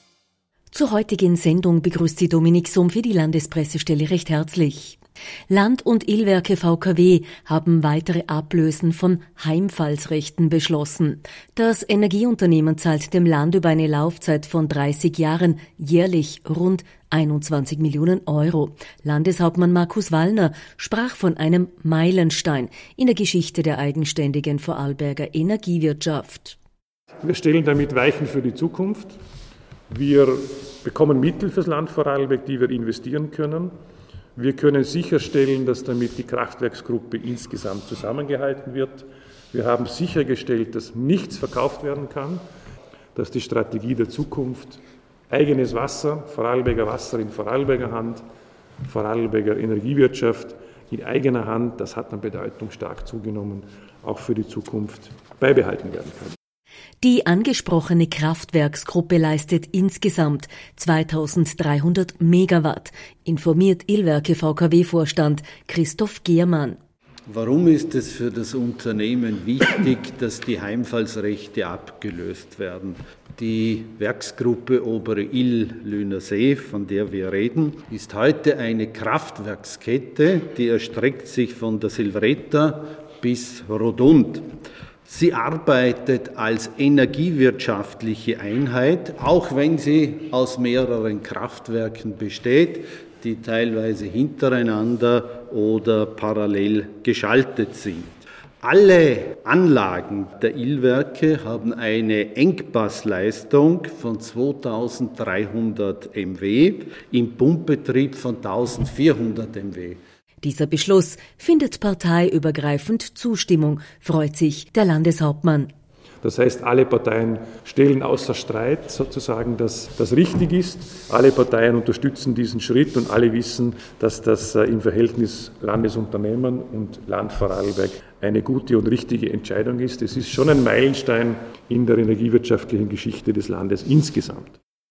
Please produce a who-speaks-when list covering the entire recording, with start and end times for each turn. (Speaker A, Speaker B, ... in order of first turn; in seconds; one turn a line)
Speaker A: 0.7-26.6
Speaker B: 27.2-29.2
Speaker B: 29.9-33.7
Speaker B: 34.4-42.4
Speaker B: 43.1-48.2
Speaker B: 48.8-56.4
Speaker A: 57.0-66.8
Speaker C: 67.3-84.5
Speaker C: 85.0-110.0
Speaker A: 110.4-115.7
Speaker B: 116.2-134.6